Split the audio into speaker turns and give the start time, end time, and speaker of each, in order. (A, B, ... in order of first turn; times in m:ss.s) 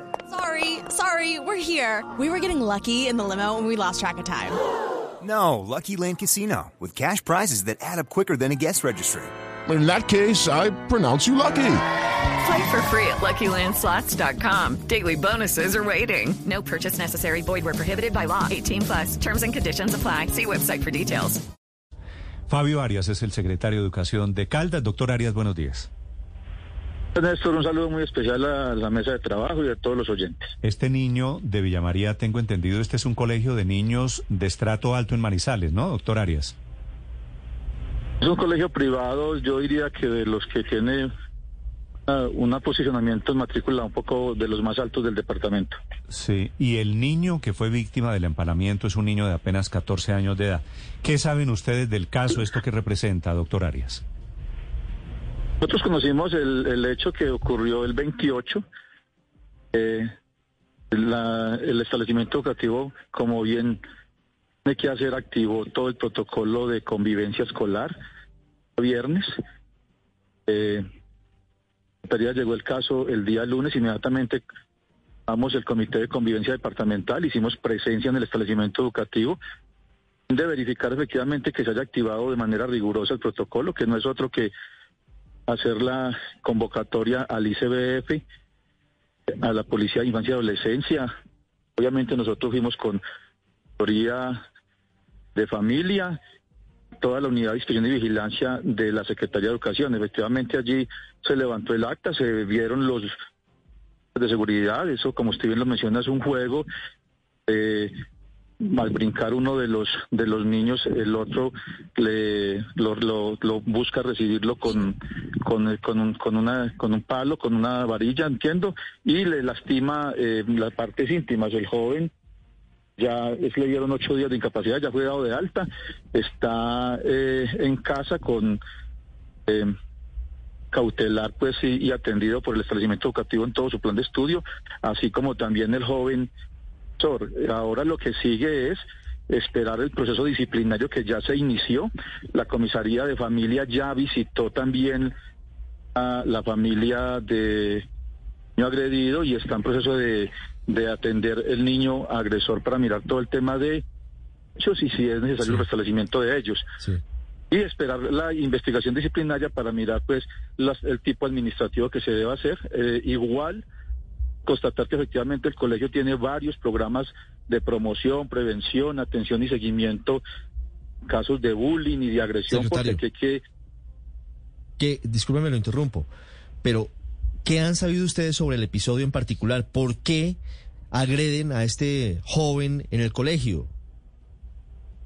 0:00.3-0:04.6 A
0:05.2-0:09.3 B
0:09.7-0:11.8 C
0:12.4-0:21.4 D
0:22.5-0:25.9 E
0:27.1-0:30.5 F
0:30.6-0:36.5 E
0:38.2-0:41.1 F
0:42.1-0:45.7 F
0:46.1-0:54.0 E
0:55.6-0:58.6 F
0:59.7-1:00.1 F
1:00.9-1:03.8 F
1:04.6-1:07.9 F
1:08.8-1:09.3 F
1:10.5-1:10.8 F
1:12.0-1:14.4 F
1:15.3-1:19.4 F
1:20.3-1:24.5 F
1:25.5-1:28.2 F
1:29.4-1:31.1 F
1:31.8-1:33.0 F
1:33.8-1:34.4 F
1:35.3-1:36.2 F
1:37.0-1:43.1 F
1:44.1-1:46.6 F
1:47.5-1:47.9 F
1:48.6-2:02.1 F
2:03.0-2:08.6 F
2:09.5-2:09.7 F
2:10.7-2:16.3 F
2:17.0-2:25.1 F
2:25.9-2:27.8 F
2:28.6-2:33.8 F
2:34.6-2:36.7 F
2:37.5-2:43.6 F
2:44.4-2:50.2 F
2:51.0-2:53.4 F
2:52.5-2:53.0 G
2:54.8-2:56.1 G
2:56.6-2:56.9 G
2:57.4-3:00.4 G
3:00.9-3:03.7 G